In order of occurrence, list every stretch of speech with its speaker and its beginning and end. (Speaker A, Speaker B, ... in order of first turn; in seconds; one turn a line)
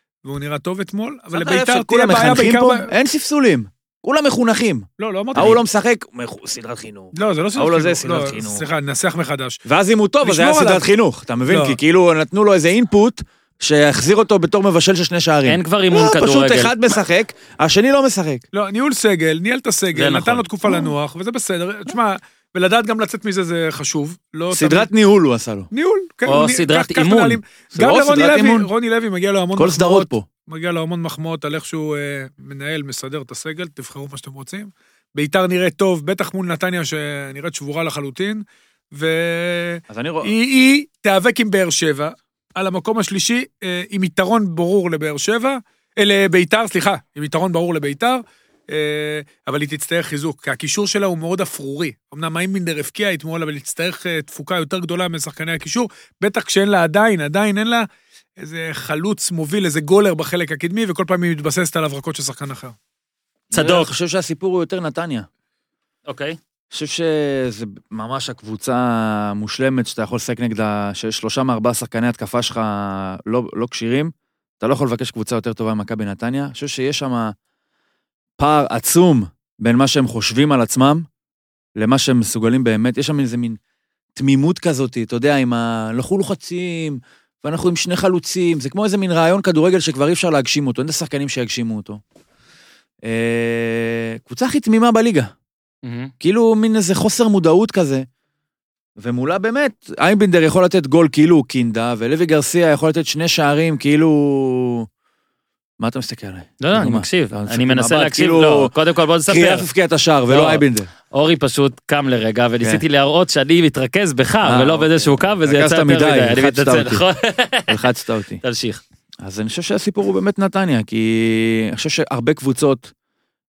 Speaker A: 0.2-2.9
Speaker B: 1.3-8.6
Speaker A: 5.0-5.6
Speaker A: 7.1-9.6
Speaker B: 9.7-18.4
Speaker A: 10.2-10.8
Speaker A: 11.5-11.8
Speaker C: 15.4-16.7
Speaker A: 18.5-24.9
Speaker C: 19.9-20.4
Speaker B: 24.5-25.7
Speaker A: 25.7-57.9
Speaker C: 26.3-27.4
Speaker B: 27.7-28.7
Speaker B: 29.6-30.3
Speaker B: 39.9-40.3
Speaker A: 58.4-62.7
Speaker B: 63.5-65.2
Speaker C: 63.5-63.9
Speaker C: 66.1-66.4
Speaker B: 66.7-77.3
Speaker B: 78.4-81.1
Speaker B: 81.8-83.6
Speaker B: 84.2-92.0
Speaker B: 93.0-95.3
Speaker C: 95.8-96.1
Speaker B: 96.2-98.0
Speaker B: 99.0-104.9
Speaker B: 105.8-108.7
Speaker C: 106.6-109.7
Speaker B: 109.3-110.9
Speaker C: 110.3-117.8
Speaker B: 114.4-117.0
Speaker B: 117.7-118.4
Speaker C: 118.4-118.8
Speaker B: 119.2-122.9